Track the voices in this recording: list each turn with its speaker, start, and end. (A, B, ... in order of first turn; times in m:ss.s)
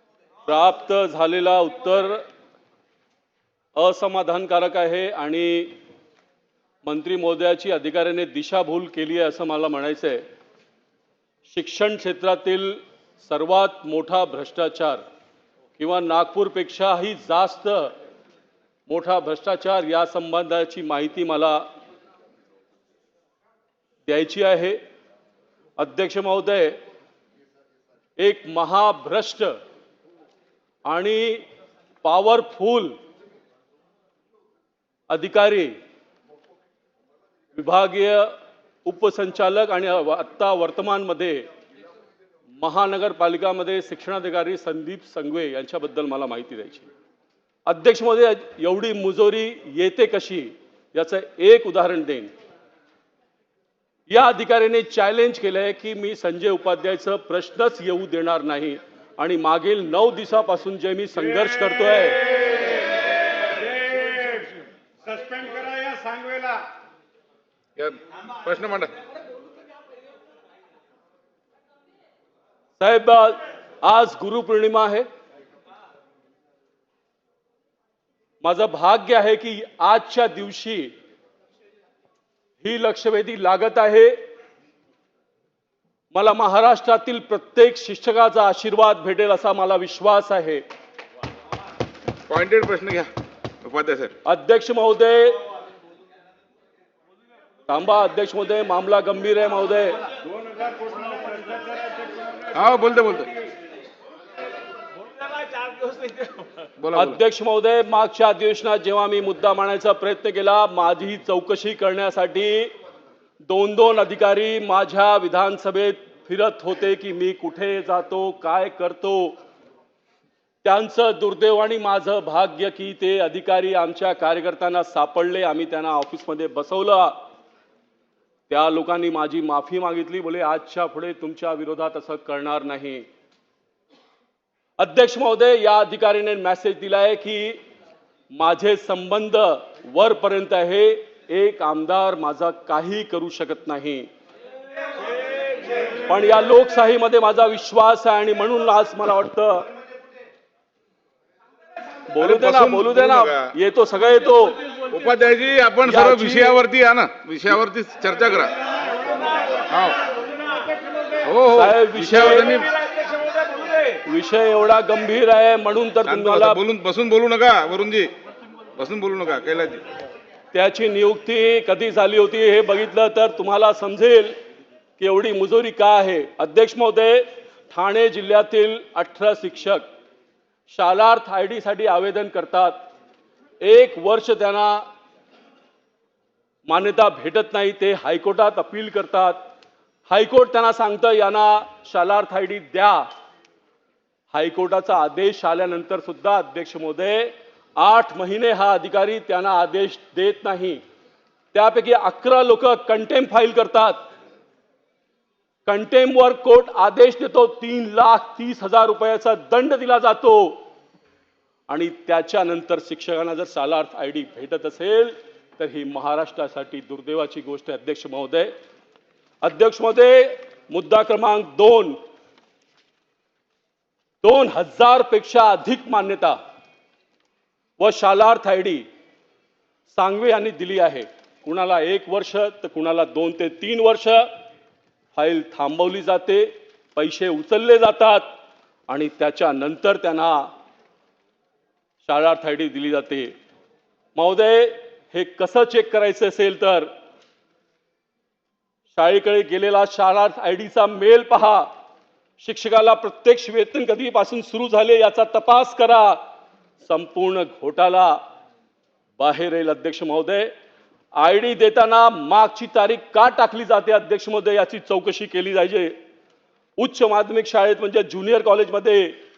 0:00.5-0:02.2 A
0:03.8-0:05.8 A
0:06.8-0:10.2 A
0:11.4-0:15.0 A
0:15.8-0:17.9 A
0:18.9-0:21.7 A
0:24.1-0:24.8 A
0:25.8-0:26.8 A
0:28.2-0:29.6 A
0:30.9-0:31.5 A
0:32.0-0:33.0 A
0:35.1-0:35.7 A
0:37.6-0:38.3 A
0:38.8-0:41.5 A
0:42.6-0:46.9 A
0:47.7-0:52.3 A
0:54.1-1:02.7 A
1:07.8-1:08.9 B
1:12.8-1:15.1 A
1:18.4-1:20.9 A
1:22.6-1:24.2 A
1:26.1-1:30.6 A
1:32.3-1:33.1 B
1:33.6-1:34.1 B
1:34.2-1:35.4 A
1:37.7-1:40.0 A
1:42.5-1:43.3 B
1:46.8-1:47.2 B
1:46.9-1:52.7 A
1:53.5-1:59.4 A
2:00.6-2:07.2 A
2:08.5-2:13.1 A
2:14.8-2:17.6 A
2:18.3-2:24.1 A
2:26.1-2:29.7 A
2:32.1-2:34.6 A
2:32.2-2:33.5 B
2:34.9-2:38.5 B
2:35.8-2:36.6 A
2:39.7-2:40.0 B
2:41.2-2:42.7 B
2:41.5-2:42.6 A
2:43.9-2:46.6 A
2:46.0-2:48.1 B
2:48.8-2:49.8 B
2:50.5-2:54.4 A
2:55.0-2:59.9 A
3:00.7-3:02.9 A
3:03.6-3:04.8 A
3:06.7-3:09.4 A
3:10.1-3:13.1 A
3:14.3-3:20.8 A
3:21.5-3:24.1 A
3:25.7-3:30.7 A
3:31.7-3:38.5 A
3:39.4-3:42.0 A
3:44.2-3:46.4 A
3:47.8-3:48.9 A
3:49.9-3:54.3 A
3:55.2-3:58.3 A
3:58.9-4:00.5 A
4:02.0-4:03.3 A
4:04.2-4:06.9 A
4:08.9-4:11.7 A
4:12.4-4:16.2 A
4:16.8-4:18.2 A
4:19.2-4:20.5 A
4:21.2-4:26.0 A
4:26.8-4:29.2 A